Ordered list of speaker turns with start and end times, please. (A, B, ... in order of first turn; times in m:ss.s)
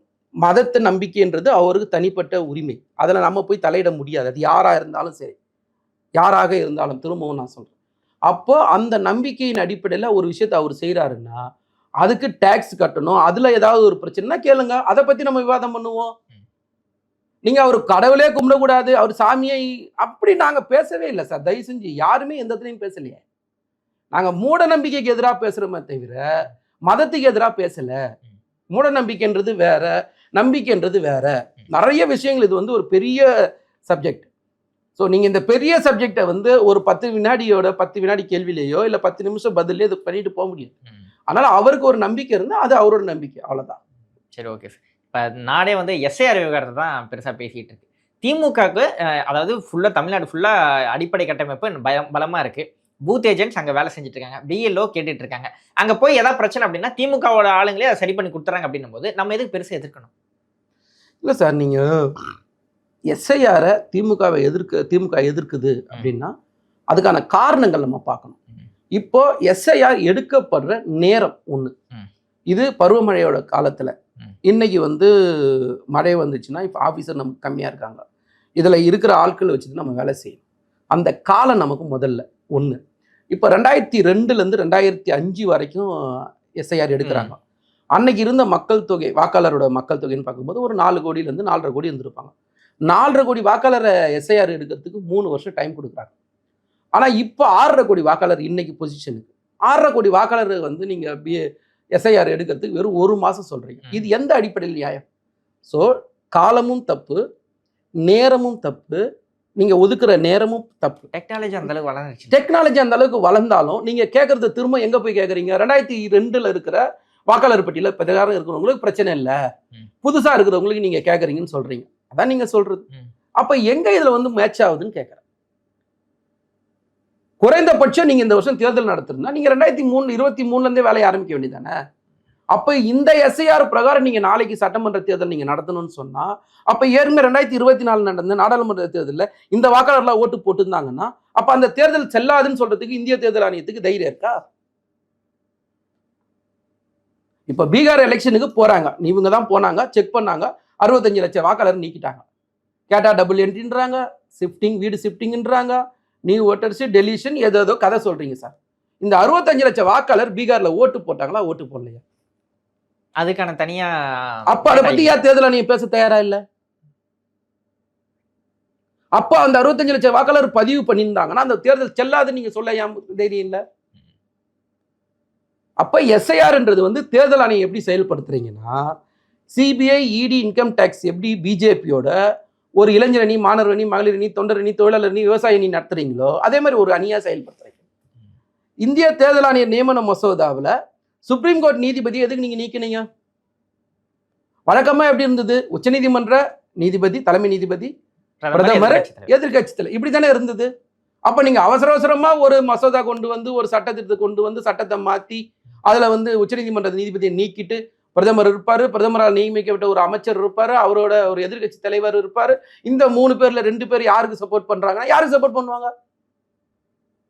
0:00.4-0:05.4 A
0:06.2-0:07.7 A
0:08.3-0:11.4 A
0:12.0-0:16.1 A
0:17.5-0:23.2 A
0:24.1-0:26.2 A
0:26.9-0:28.0 A
0:28.7-0:33.3 A
0:33.9-0:34.3 A
0:35.0-0:40.7 A
0:41.3-0:43.8 A
0:44.3-1:00.1 B
1:01.2-1:02.2 A
1:03.1-1:06.3 A
1:06.9-1:08.4 A
1:09.0-1:11.7 A
1:12.5-1:18.0 A
1:18.6-1:20.4 A
1:20.9-1:22.8 A
1:23.3-1:25.9 A
1:26.6-1:27.4 A
1:27.0-1:27.3 B
1:28.0-1:32.3 A
1:32.9-1:36.1 A
1:37.0-1:41.4 A
1:42.0-1:45.0 A
1:45.7-1:47.2 A
1:48.0-1:49.0 A
1:49.6-1:51.1 A
1:51.1-1:52.4 B
1:52.3-1:59.4 A
2:00.0-2:02.9 A
2:03.4-2:05.2 A
2:07.4-2:11.7 A
2:12.5-2:24.4 A
2:27.5-2:32.2 A
2:32.9-2:42.0 A
2:43.2-2:45.2 B
2:44.5-2:46.4 A
2:49.2-2:53.6 A
2:55.8-2:58.7 A
2:59.5-3:02.1 A
3:02.8-3:07.8 A
3:08.8-3:10.7 A
3:11.3-3:13.1 A
3:14.7-3:17.9 A
3:18.4-3:19.3 B
3:18.5-3:20.7 A
3:21.3-3:35.9 A